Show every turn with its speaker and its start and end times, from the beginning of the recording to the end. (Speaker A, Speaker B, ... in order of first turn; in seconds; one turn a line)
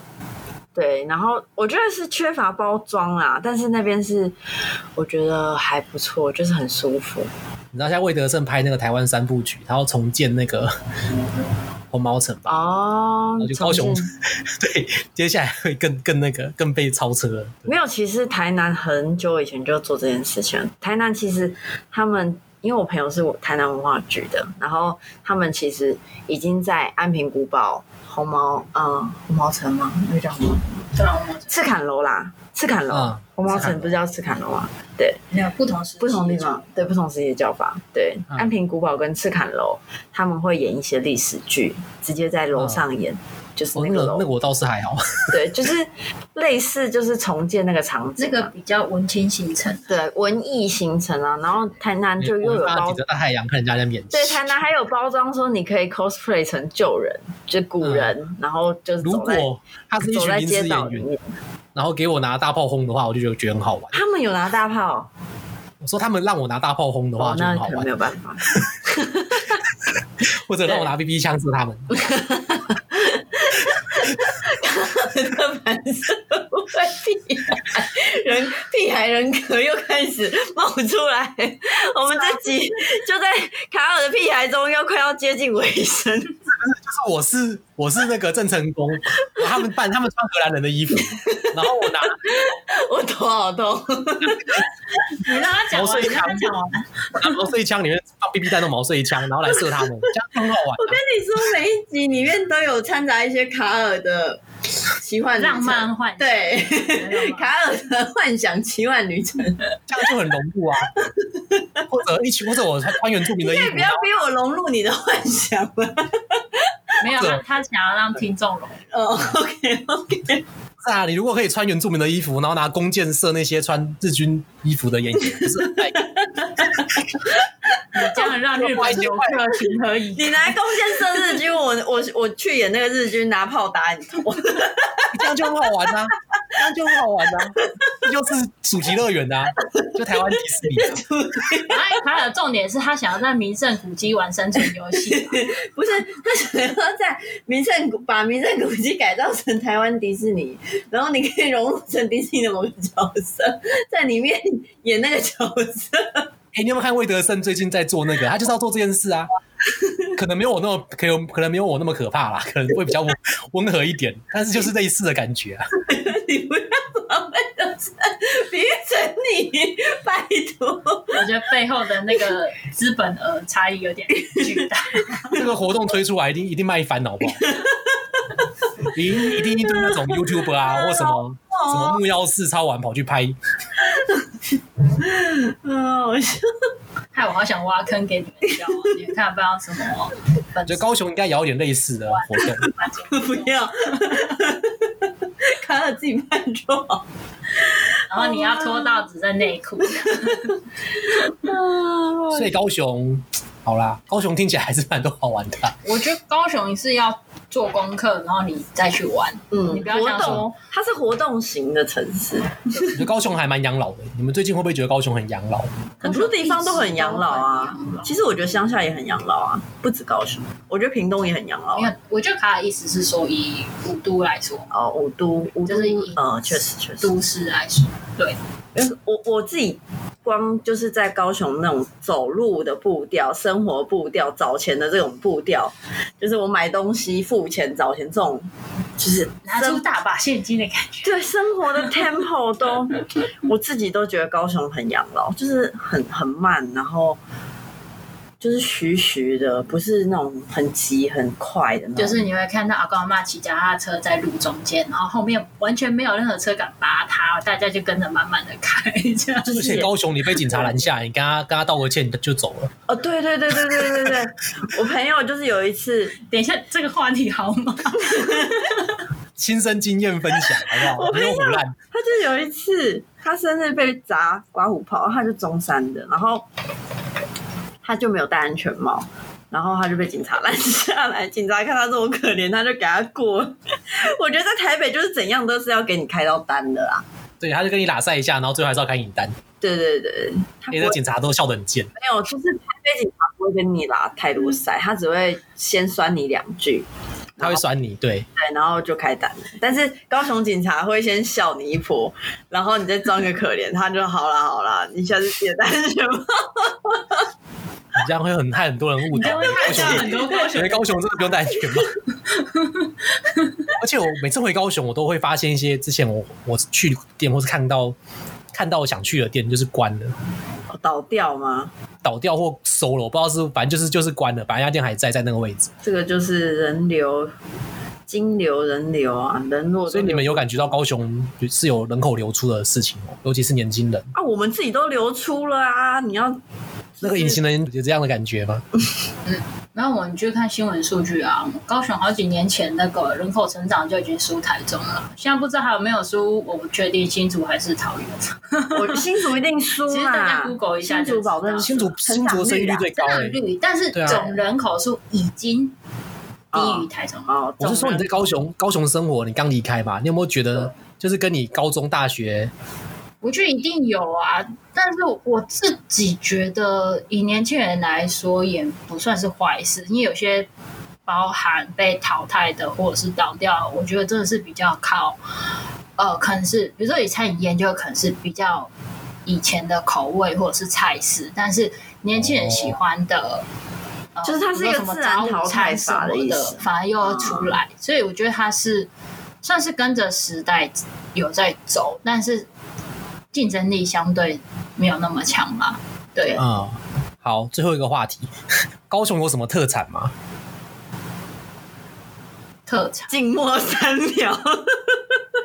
Speaker A: 0.8-4.4
Speaker A: 5.0-7.3
Speaker B: 7.7-10.7
Speaker B: 11.9-12.6
Speaker A: 12.5-14.1
Speaker B: 13.4-17.7
Speaker A: 17.7-30.9
Speaker C: 30.9-31.6
Speaker A: 31.5-35.2
Speaker B: 32.9-34.0
Speaker C: 35.3-36.6
Speaker A: 36.0-44.3
Speaker B: 42.6-42.8
Speaker B: 43.8-45.4
Speaker A: 45.3-48.5
Speaker C: 48.2-49.9
Speaker A: 49.9-53.0
Speaker B: 52.2-54.5
Speaker A: 54.1-59.5
Speaker B: 57.8-58.1
Speaker B: 59.0-61.0
Speaker A: 60.0-61.4
Speaker B: 61.8-64.0
Speaker A: 63.9-65.1
Speaker B: 65.8-67.9
Speaker A: 67.2-69.6
Speaker B: 70.5-71.9
Speaker A: 71.9-86.4
Speaker B: 86.5-92.2
Speaker A: 89.4-89.6
Speaker A: 90.9-94.7
Speaker C: 95.2-97.2
Speaker B: 95.7-96.5
Speaker B: 97.2-101.0
Speaker A: 99.5-99.9
Speaker A: 100.8-104.4
Speaker A: 104.9-109.6
Speaker C: 105.4-107.5
Speaker B: 109.9-110.9
Speaker A: 111.0-111.8
Speaker B: 111.9-114.0
Speaker A: 113.4-117.0
Speaker C: 117.0-118.8
Speaker A: 118.9-120.4
Speaker B: 120.8-126.0
Speaker A: 125.4-127.4
Speaker C: 127.9-130.6
Speaker B: 128.6-129.4
Speaker A: 130.2-135.4
Speaker B: 135.1-141.0
Speaker A: 136.6-137.0
Speaker A: 139.7-142.0
Speaker C: 141.7-145.5
Speaker A: 145.1-156.3
Speaker B: 156.5-159.3
Speaker A: 159.7-160.1
Speaker B: 160.1-165.7
Speaker A: 165.8-171.3
Speaker C: 171.1-175.4
Speaker A: 174.3-174.6
Speaker B: 175.3-177.5
Speaker A: 177.3-178.3
Speaker B: 178.9-183.4
Speaker A: 179.1-182.0
Speaker A: 183.8-186.6
Speaker C: 187.1-190.9
Speaker B: 190.7-192.7
Speaker C: 192.1-194.1
Speaker A: 193.1-199.1
Speaker C: 198.1-200.6
Speaker A: 200.0-200.5
Speaker A: 201.0-202.6
Speaker B: 202.3-205.8
Speaker C: 205.8-210.6
Speaker A: 209.5-212.9
Speaker B: 212.9-215.7
Speaker C: 216.0-218.2
Speaker A: 216.0-221.9
Speaker C: 221.8-224.7
Speaker A: 224.7-227.1
Speaker C: 225.7-226.2
Speaker C: 227.0-228.4
Speaker A: 228.8-239.8
Speaker C: 239.4-241.2
Speaker A: 241.0-247.2
Speaker A: 248.4-252.2
Speaker C: 252.0-259.9
Speaker B: 259.5-262.7
Speaker A: 260.5-260.8
Speaker A: 262.9-266.1
Speaker C: 266.2-268.8
Speaker A: 268.1-268.4
Speaker B: 269.4-271.7
Speaker A: 270.6-276.5
Speaker A: 277.8-287.1
Speaker B: 287.4-289.4
Speaker A: 289.6-291.0
Speaker B: 290.7-291.9
Speaker A: 292.0-297.6
Speaker B: 297.4-298.3
Speaker A: 298.4-307.3
Speaker B: 307.9-311.9
Speaker C: 309.1-310.8
Speaker A: 309.2-310.5
Speaker C: 312.4-312.8
Speaker B: 313.8-318.0
Speaker B: 318.5-320.2
Speaker A: 320.7-321.7
Speaker B: 322.0-325.7
Speaker A: 325.8-327.3
Speaker A: 328.1-330.5
Speaker B: 329.9-334.1
Speaker A: 334.1-336.4
Speaker A: 337.0-337.4
Speaker B: 337.0-338.7
Speaker C: 339.3-349.0
Speaker A: 348.7-352.9
Speaker C: 349.9-351.8
Speaker B: 351.6-353.4
Speaker C: 353.0-355.8
Speaker B: 353.9-354.2
Speaker A: 356.5-358.2
Speaker C: 356.5-357.3
Speaker B: 357.6-362.5
Speaker C: 363.2-370.5
Speaker C: 371.1-375.2
Speaker C: 376.0-378.7
Speaker C: 379.3-383.4
Speaker B: 382.3-382.8
Speaker C: 384.1-388.9
Speaker A: 384.2-387.6
Speaker C: 389.4-392.5
Speaker C: 393.3-396.4
Speaker B: 396.4-398.3
Speaker B: 398.9-400.1
Speaker C: 402.7-403.1
Speaker A: 403.1-405.2